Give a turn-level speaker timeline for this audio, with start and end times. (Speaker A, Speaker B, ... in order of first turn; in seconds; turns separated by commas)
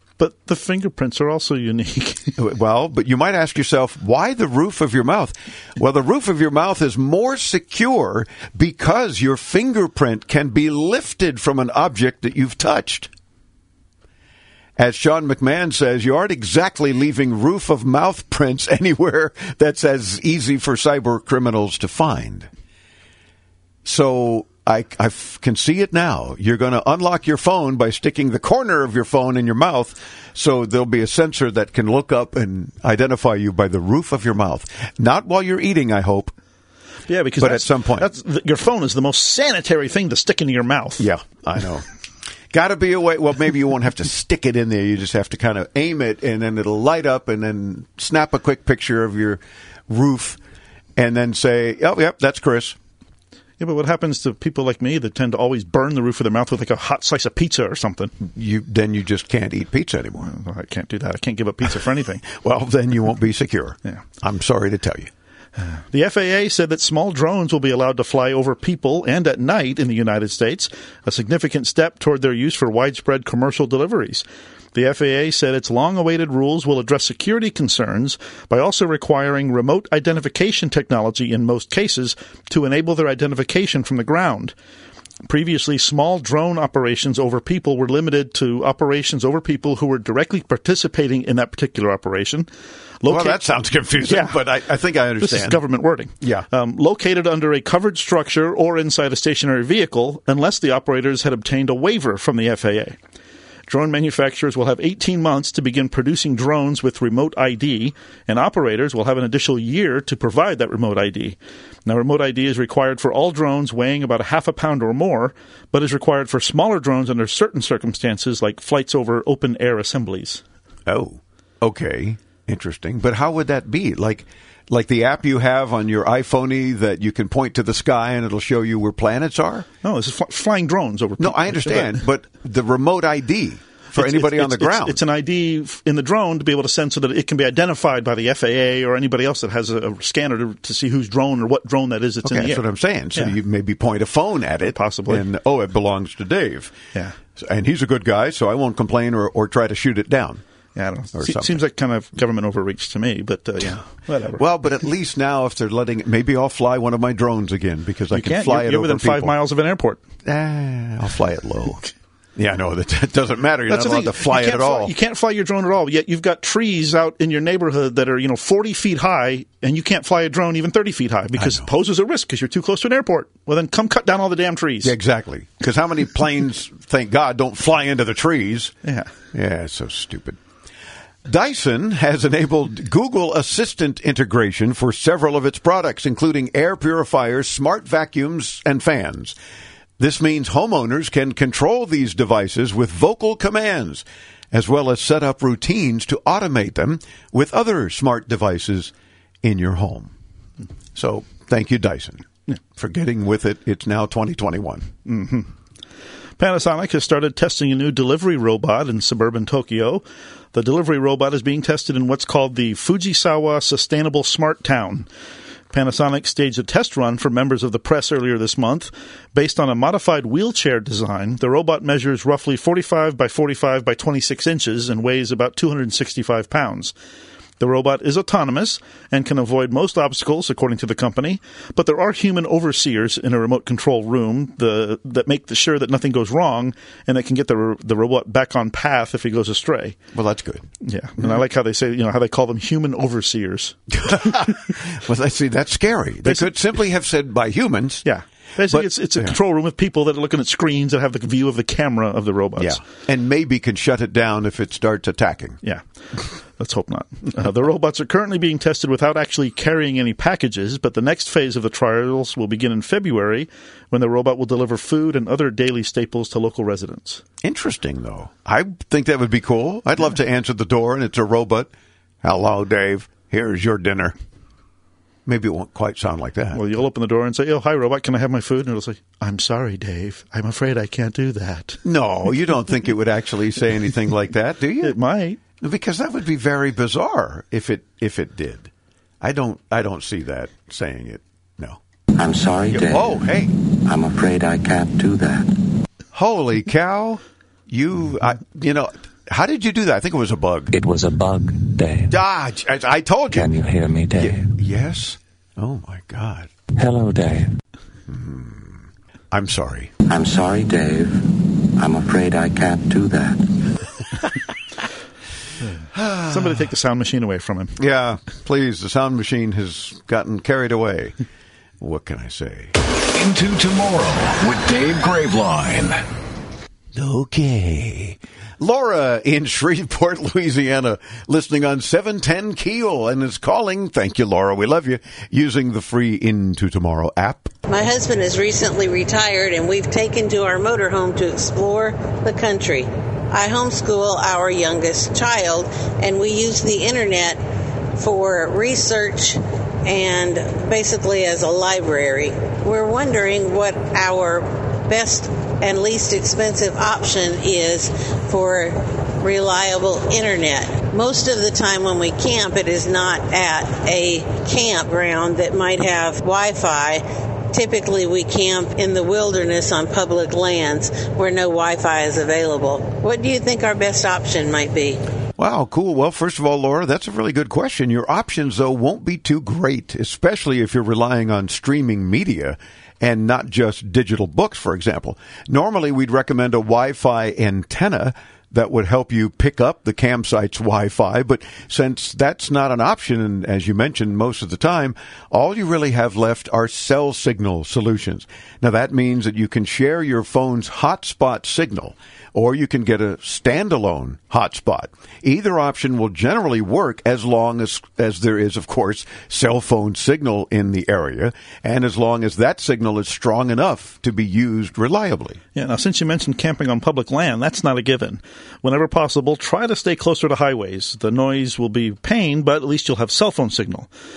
Speaker A: 0.2-2.4, Speaker B: 2.4-13.1, Speaker B: 14.8-22.5, Speaker B: 23.9-36.3, Speaker A: 37.1-41.1, Speaker B: 37.4-38.1, Speaker B: 41.0-41.9, Speaker B: 42.5-50.4, Speaker B: 51.0-52.8, Speaker A: 53.6-58.1, Speaker B: 58.2-60.3, Speaker A: 60.2-62.2, Speaker B: 62.2-65.1, Speaker A: 65.6-84.5, Speaker A: 85.2-92.5, Speaker A: 93.0-93.4, Speaker B: 93.0-95.6, Speaker A: 94.0-94.4, Speaker A: 95.2-103.0, Speaker B: 96.2-96.5, Speaker A: 103.7-120.4, Speaker B: 120.9-129.7, Speaker A: 129.8-132.0, Speaker B: 131.2-135.0, Speaker A: 133.9-142.6, Speaker B: 142.2-146.8, Speaker A: 144.7-145.2, Speaker B: 147.4-150.4, Speaker A: 150.8-154.4, Speaker B: 151.1-151.6, Speaker B: 154.3-159.3, Speaker A: 158.1-160.0, Speaker B: 160.2-161.8, Speaker B: 162.4-164.9, Speaker A: 163.7-175.0, Speaker B: 171.4-171.7, Speaker B: 174.8-178.7, Speaker A: 178.8-179.1, Speaker B: 179.3-180.4, Speaker B: 181.2-189.4, Speaker B: 190.0-200.1, Speaker B: 200.9-204.9, Speaker A: 205.1-205.5, Speaker A: 206.4-215.1, Speaker A: 215.7-226.9, Speaker A: 227.6-240.0, Speaker B: 240.1-240.7, Speaker A: 240.8-243.8, Speaker B: 244.0-248.1, Speaker A: 246.2-246.5, Speaker A: 248.1-252.8, Speaker B: 248.7-249.4, Speaker B: 252.6-255.6, Speaker A: 255.6-267.2, Speaker B: 267.4-271.7, Speaker B: 272.2-274.2, Speaker B: 275.3-276.6, Speaker A: 276.5-281.8, Speaker B: 281.8-285.0, Speaker A: 284.8-285.4, Speaker B: 285.6-288.7, Speaker B: 289.2-291.8, Speaker C: 292.2-293.2, Speaker B: 292.7-293.5, Speaker C: 293.9-295.5, Speaker B: 296.1-300.7, Speaker C: 300.7-302.1, Speaker B: 302.1-303.6, Speaker C: 303.3-304.5, Speaker B: 304.2-306.5, Speaker C: 306.8-307.5, Speaker B: 308.1-309.9, Speaker C: 310.1-311.3, Speaker C: 311.8-313.4, Speaker B: 315.9-316.6, Speaker A: 316.3-317.8, Speaker B: 317.8-321.2, Speaker B: 321.8-322.7, Speaker D: 323.1-326.0, Speaker B: 326.9-337.5, Speaker E: 337.7-347.4, Speaker E: 348.0-375.0, Speaker B: 375.4-415.4, Speaker A: 415.6-423.9